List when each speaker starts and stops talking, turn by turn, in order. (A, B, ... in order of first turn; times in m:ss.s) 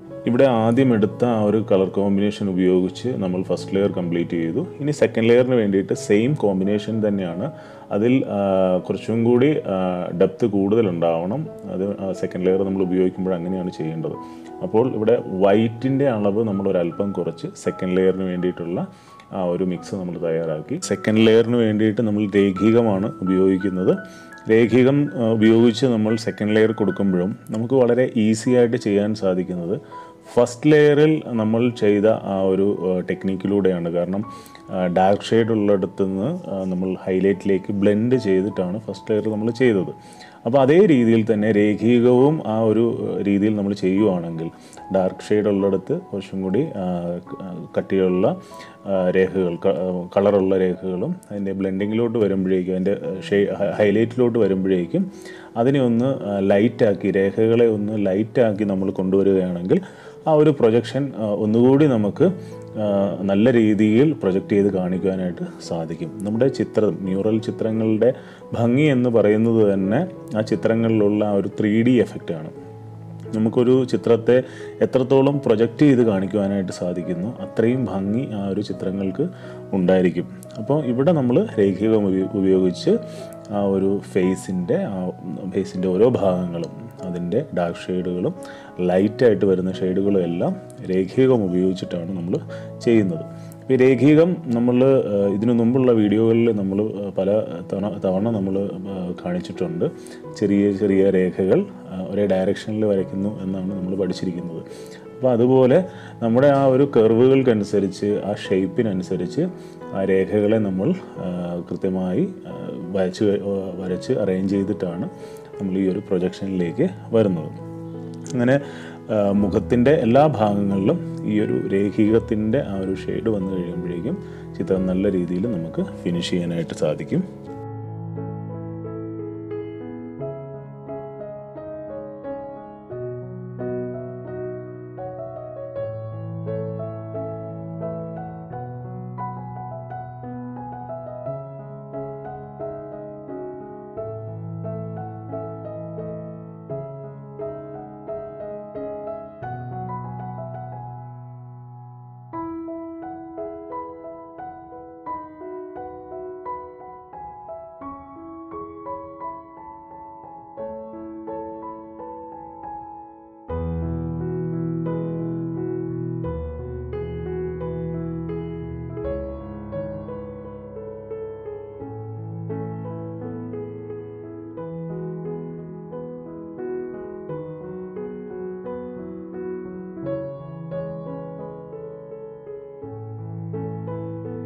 0:00.2-1:12.5 A
1:13.3-1:23.0 A
1:23.5-1:44.6 A
1:45.2-1:57.6 A
1:58.3-2:07.3 A